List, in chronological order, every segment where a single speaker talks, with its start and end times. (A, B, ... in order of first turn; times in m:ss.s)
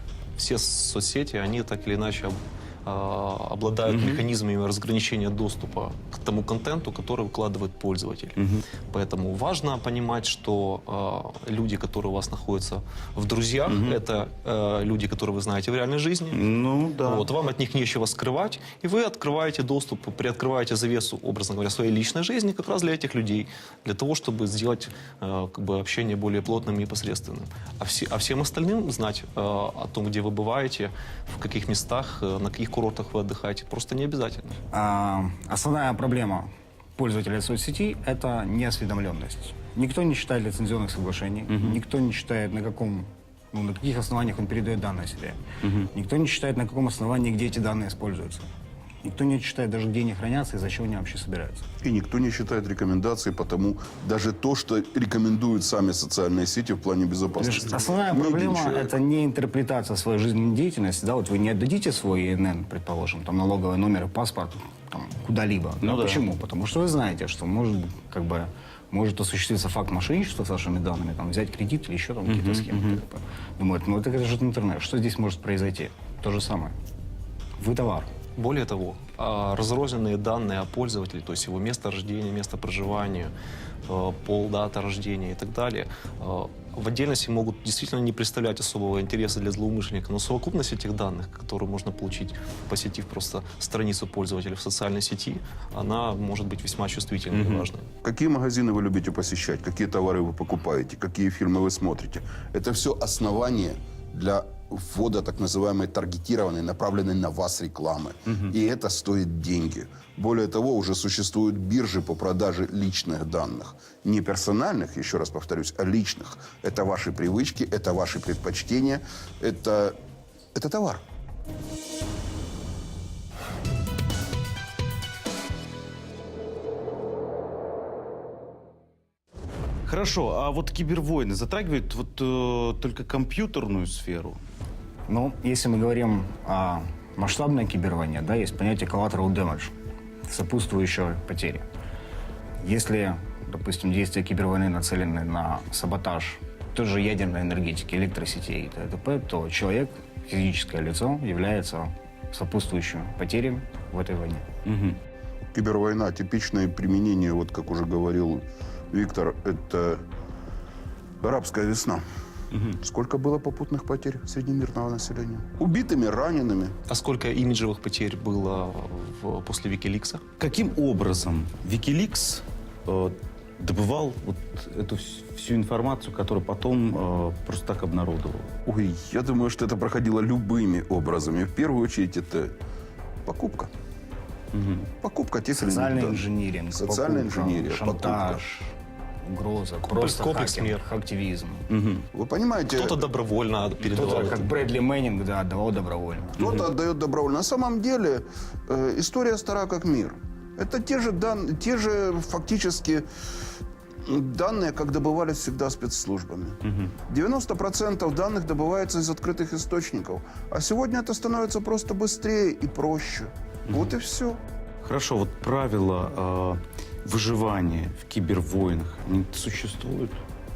0:00.4-0:16.5 A
0:03.9-0:04.2 B
0:08.4-0:08.6 B
0:13.7-0:14.0 B
0:16.3-0:17.3 B
0:17.0-0:34.6 A
0:34.7-0:48.5 C
0:41.5-0:41.8 B
0:45.6-0:45.9 B
0:49.0-0:51.7 C
0:51.8-0:59.0 D
0:57.4-1:16.8 C
1:05.8-1:06.2 B
1:12.3-1:13.0 B
1:17.6-1:18.1 C
1:18.4-1:23.3 A
1:23.9-1:37.9 A
1:37.3-1:37.7 B
1:38.0-2:00.0 D
2:00.5-2:01.0 D
2:09.9-2:14.4 B
2:15.1-2:19.7 C
2:20.2-2:21.6 C
2:22.6-2:34.5 C
2:34.6-2:35.0 B
2:35.5-2:40.0 D
2:41.2-2:42.0 D
2:42.5-2:42.8 B
2:42.8-2:46.8 D
2:46.9-2:50.2 A
2:50.4-2:58.5 B
2:58.6-3:02.5 D
3:03.2-3:03.7 D
3:04.5-3:04.9 B
3:04.9-3:06.2 D
3:05.6-3:11.7 C
3:06.8-3:08.4 D
3:09.9-3:10.8 A
3:11.7-3:12.0 B
3:12.1-3:13.0 D
3:12.7-3:14.5 A
3:13.8-3:16.4 C
3:16.4-3:23.1 D
3:24.0-3:34.4 D
3:26.6-3:26.9 B
3:34.8-3:40.2 B